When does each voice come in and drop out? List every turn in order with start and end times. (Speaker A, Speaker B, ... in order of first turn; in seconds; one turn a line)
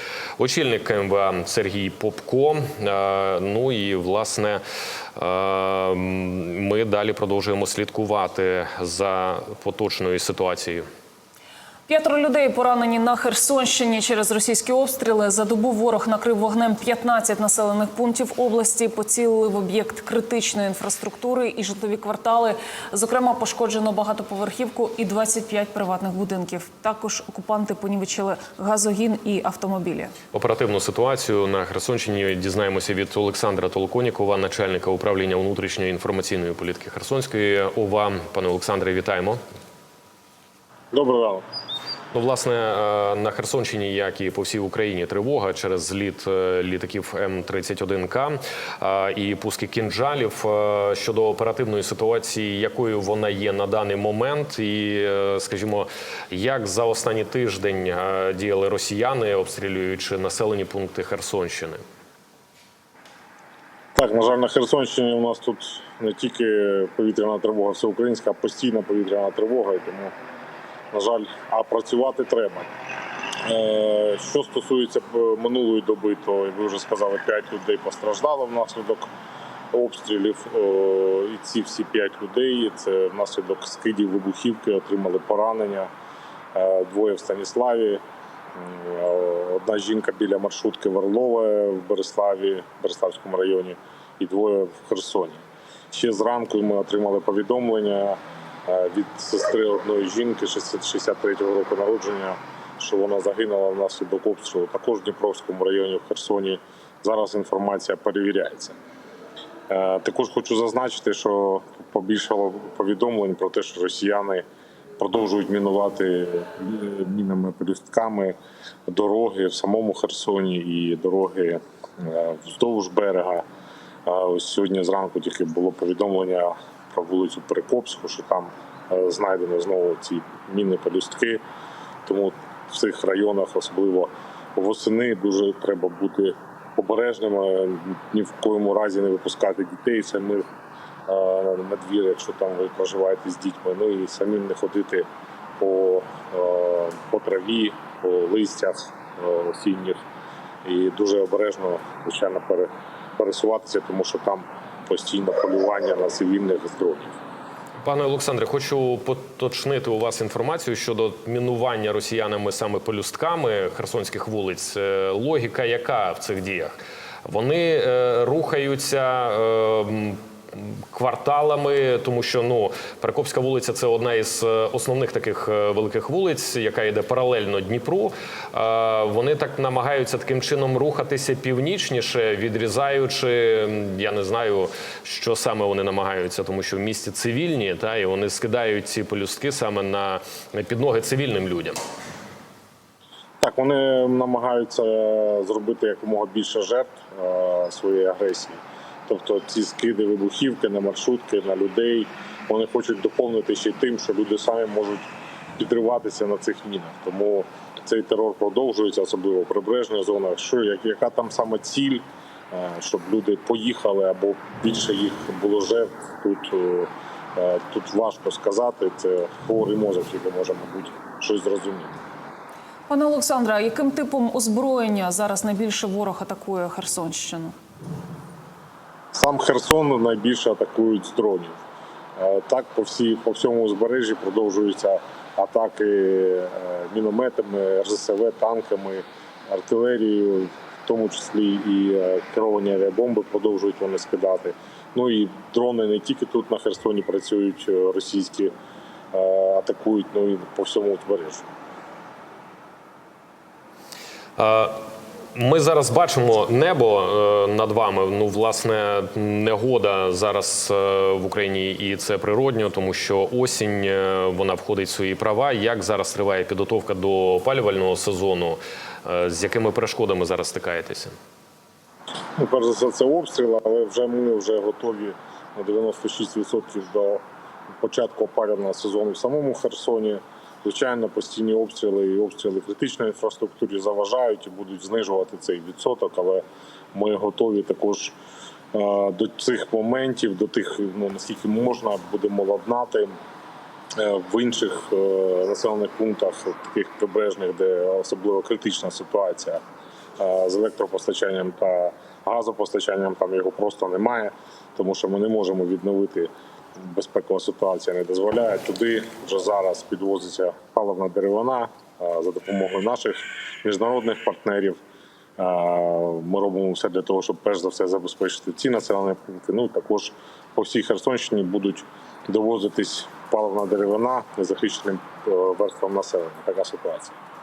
Speaker A: 0.4-4.6
Speaker A: 5.2-10.8
Speaker B: 11.9-30.1
Speaker A: 30.3-39.4
Speaker C: 40.9-41.4
Speaker A: 42.1-61.8
Speaker C: 63.9-70.1
Speaker C: 70.9-72.7
Speaker C: 73.4-79.0
Speaker C: 79.7-85.9
Speaker C: 86.5-88.0
Speaker C: 88.6-108.8
Speaker C: 109.7-114.4
Speaker C: 115.0-118.3
Speaker C: 118.9-123.4
Speaker C: 124.0-131.4
Speaker C: 132.0-140.4
Speaker C: 141.1-145.1
Speaker C: 145.6-150.0
Speaker C: 150.6-157.2
Speaker A: 157.8-166.7
Speaker A: 167.2-191.8
Speaker C: 193.4-205.1
Speaker C: 205.6-221.9
Speaker B: 222.9-227.6
Speaker C: 229.1-231.6
Speaker C: 232.2-248.5
Speaker C: 249.1-251.4
Speaker A: 254.4-254.8
Speaker A: 255.3-271.1
Speaker C: 272.4-277.2
Speaker C: 277.8-286.4
Speaker C: 286.9-288.1
Speaker C: 288.7-293.1
Speaker C: 294.0-299.6
Speaker C: 300.2-314.8
Speaker C: 315.4-327.2